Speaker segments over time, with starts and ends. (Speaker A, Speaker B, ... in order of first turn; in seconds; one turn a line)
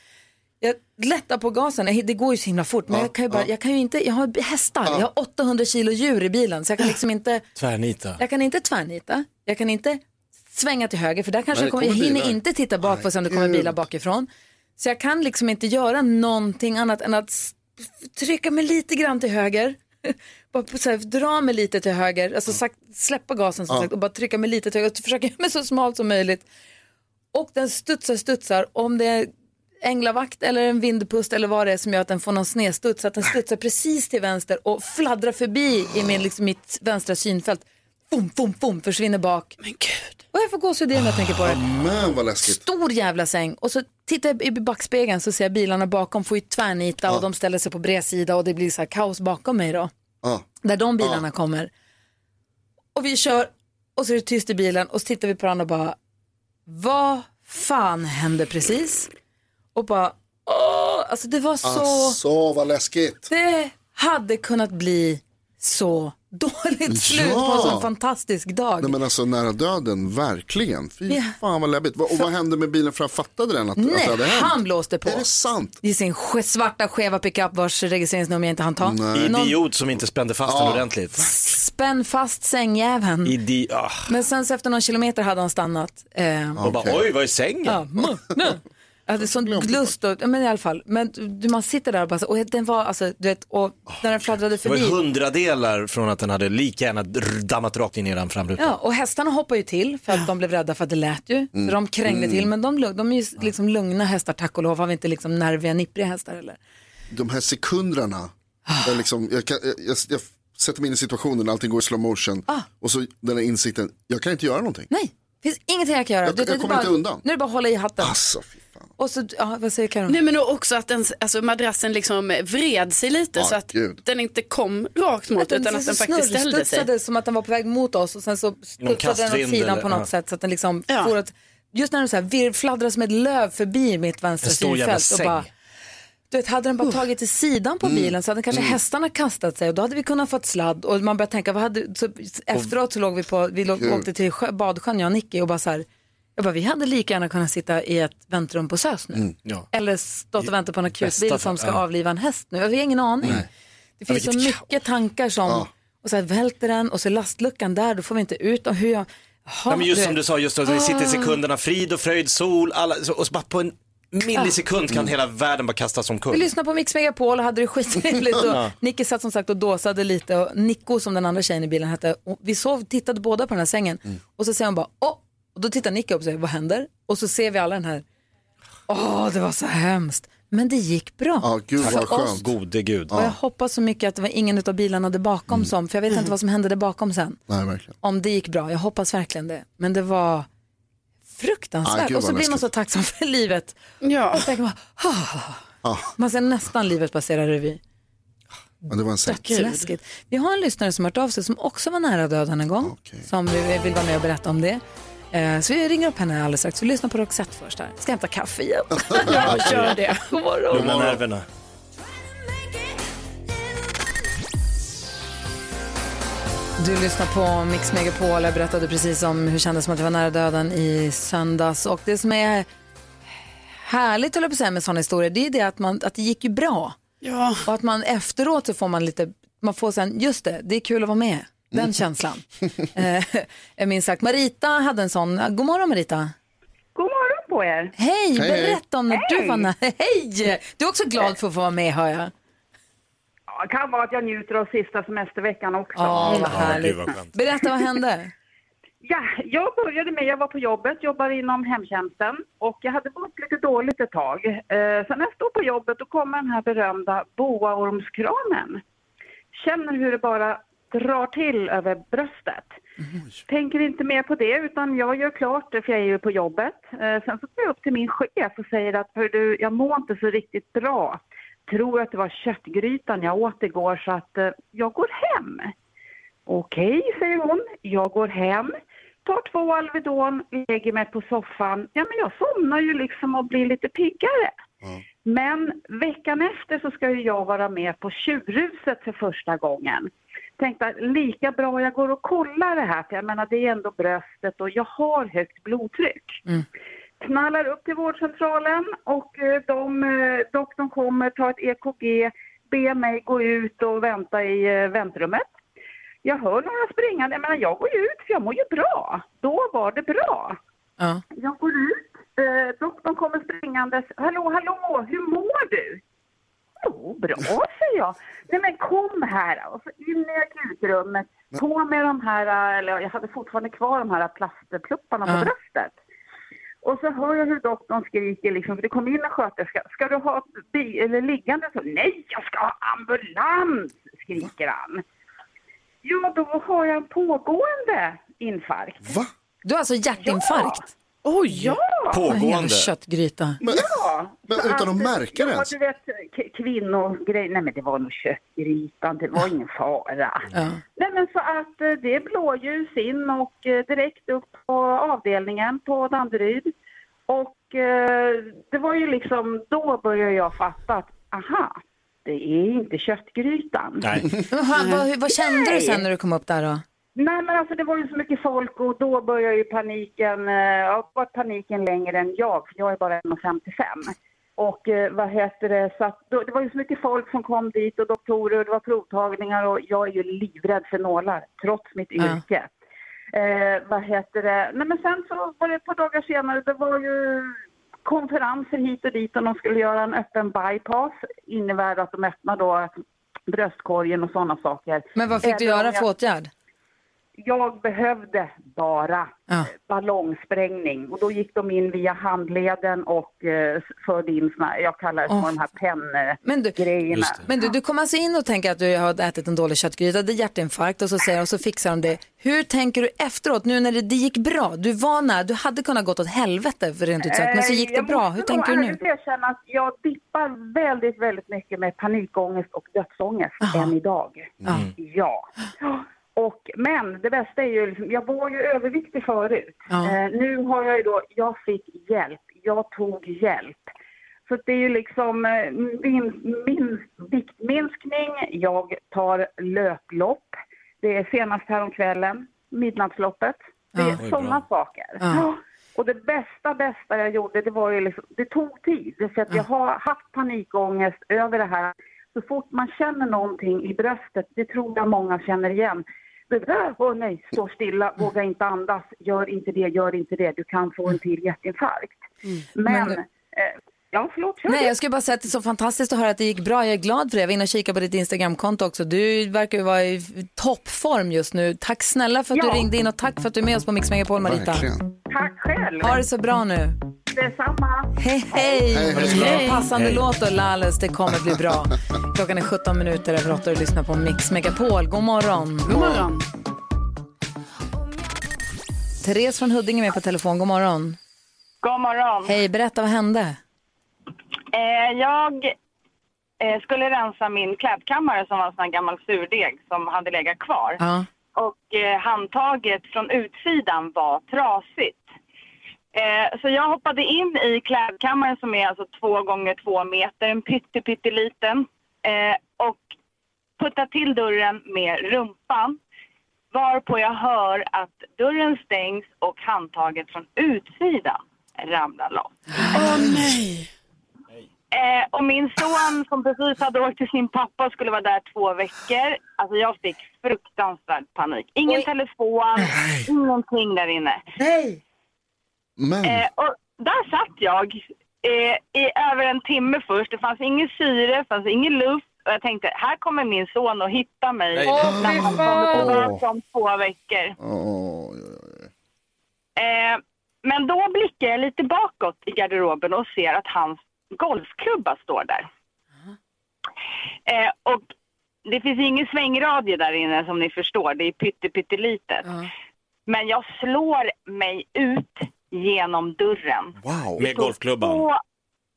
Speaker A: 0.6-7.5
Speaker B: 2.9-3.5
Speaker C: 7.6-8.2
Speaker A: 8.2-26.5
Speaker B: 11.5-13.8
Speaker A: 27.3-29.3
Speaker A: 29.8-39.6
Speaker D: 39.6-40.1
Speaker A: 40.3-41.6
Speaker B: 41.4-42.6
Speaker A: 42.4-49.9
Speaker A: 50.6-51.7
Speaker A: 53.0-56.0
Speaker A: 56.7-59.1
Speaker A: 59.8-62.2
Speaker B: 61.6-63.3
Speaker A: 63.3-69.0
Speaker B: 66.9-67.9
Speaker B: 68.8-75.8
Speaker A: 71.1-71.3
Speaker A: 73.8-75.3
Speaker A: 75.8-79.6
Speaker B: 78.8-79.3
Speaker C: 79.1-81.2
Speaker B: 80.5-80.9
Speaker A: 81.2-83.4
Speaker C: 83.2-84.1
Speaker A: 84.1-86.7
Speaker B: 86.6-87.1
Speaker C: 86.6-87.9
Speaker A: 87.7-95.0
Speaker B: 89.3-89.9
Speaker C: 94.6-98.8
Speaker A: 98.6-106.6
Speaker B: 101.5-102.5
Speaker B: 107.1-108.3
Speaker A: 108.7-109.0
Speaker B: 108.8-114.9
Speaker A: 114.9-118.2
Speaker B: 116.2-117.2
Speaker B: 118.0-118.9
Speaker A: 119.0-120.2
Speaker D: 120.1-126.9
Speaker B: 123.4-124.0
Speaker A: 125.4-135.5
Speaker C: 128.8-130.1
Speaker D: 130.9-131.1
Speaker C: 134.4-135.5
Speaker A: 136.3-153.4
Speaker B: 137.8-138.8
Speaker B: 143.8-144.1
Speaker C: 151.0-151.8
Speaker A: 154.0-161.4
Speaker C: 154.1-154.7
Speaker C: 159.7-166.5
Speaker A: 166.3-178.0
Speaker C: 168.4-168.7
Speaker A: 178.9-182.4
Speaker B: 181.4-182.5
Speaker C: 181.8-183.2
Speaker B: 183.1-183.3
Speaker A: 183.1-187.4
Speaker B: 187.5-188.0
Speaker A: 188.0-190.5
Speaker A: 191.4-193.8
Speaker B: 191.8-192.7
Speaker D: 194.0-194.5
Speaker A: 194.3-195.6
Speaker B: 195.8-196.1
Speaker A: 196.2-197.8
Speaker A: 198.8-204.8
Speaker B: 198.9-199.4
Speaker D: 199.3-199.9
Speaker B: 202.8-203.3
Speaker A: 205.3-210.9
Speaker B: 209.1-209.7
Speaker D: 209.2-210.2
Speaker C: 209.5-209.9
Speaker C: 210.7-211.4
Speaker B: 210.7-211.2
Speaker A: 216.8-222.7
Speaker A: 223.8-227.0
Speaker D: 227.2-227.7
Speaker A: 227.7-236.3
Speaker E: 236.9-237.9
Speaker A: 238.0-242.3
Speaker B: 238.3-238.8
Speaker E: 239.1-239.7
Speaker E: 243.5-246.7
Speaker A: 245.9-248.3
Speaker C: 246.2-247.3
Speaker E: 249.0-258.8
Speaker E: 259.5-262.8
Speaker E: 263.5-275.7
Speaker E: 276.5-284.6
Speaker E: 285.2-296.4
Speaker E: 297.2-305.5
Speaker E: 306.2-310.6
Speaker E: 311.4-316.0
Speaker E: 316.8-325.9
Speaker A: 325.3-325.5
Speaker E: 326.8-335.0
Speaker E: 336.0-339.1
Speaker B: 339.0-339.3
Speaker A: 339.6-340.9
Speaker E: 340.2-340.9
Speaker D: 341.2-341.8
Speaker E: 341.6-342.3
Speaker C: 342.1-342.9
Speaker A: 342.3-343.6
Speaker B: 343.6-343.9
Speaker E: 343.6-356.7
Speaker B: 344.5-345.7
Speaker A: 350.5-350.8
Speaker E: 357.3-364.2
Speaker C: 364.0-364.3
Speaker A: 364.5-366.8
Speaker E: 365.3-366.0
Speaker E: 367.2-382.7
Speaker E: 383.3-392.9
Speaker E: 393.5-396.1
Speaker A: 395.1-396.5
Speaker E: 397.4-407.7
Speaker A: 405.3-405.5
Speaker A: 406.4-419.0
Speaker C: 407.1-407.4
Speaker E: 417.2-433.9
Speaker A: 423.6-424.0
Speaker A: 429.9-430.1
Speaker E: 434.5-462.2
Speaker A: 443.9-444.2
Speaker C: 444.2-444.6
Speaker A: 445.2-445.5
Speaker E: 462.8-464.9
Speaker A: 462.9-463.2
Speaker A: 464.7-474.9
Speaker E: 472.5-472.9
Speaker B: 474.4-475.1
Speaker E: 475.3-476.2
Speaker A: 476.0-477.0
Speaker E: 477.3-479.0
Speaker A: 478.2-485.9
Speaker B: 478.9-479.7
Speaker C: 479.2-480.2
Speaker D: 479.2-479.8
Speaker D: 485.9-486.4
Speaker B: 485.9-486.3
Speaker A: 489.2-491.2
Speaker F: 491.8-492.5
Speaker A: 492.4-493.6
Speaker F: 494.7-495.7
Speaker F: 496.6-501.0
Speaker A: 501.0-501.2
Speaker F: 501.6-505.2
Speaker F: 506.1-513.1
Speaker F: 513.8-516.0
Speaker F: 516.7-522.6
Speaker A: 522.8-523.2
Speaker D: 522.9-523.9
Speaker F: 524.9-534.4
Speaker A: 534.6-535.0
Speaker B: 536.0-536.5
Speaker F: 536.2-547.6
Speaker A: 544.9-546.2
Speaker B: 545.0-546.4
Speaker B: 547.6-548.9
Speaker F: 549.8-555.7
Speaker F: 557.5-558.0
Speaker F: 558.7-562.6
Speaker F: 563.3-568.4
Speaker B: 567.0-567.4
Speaker C: 567.4-568.2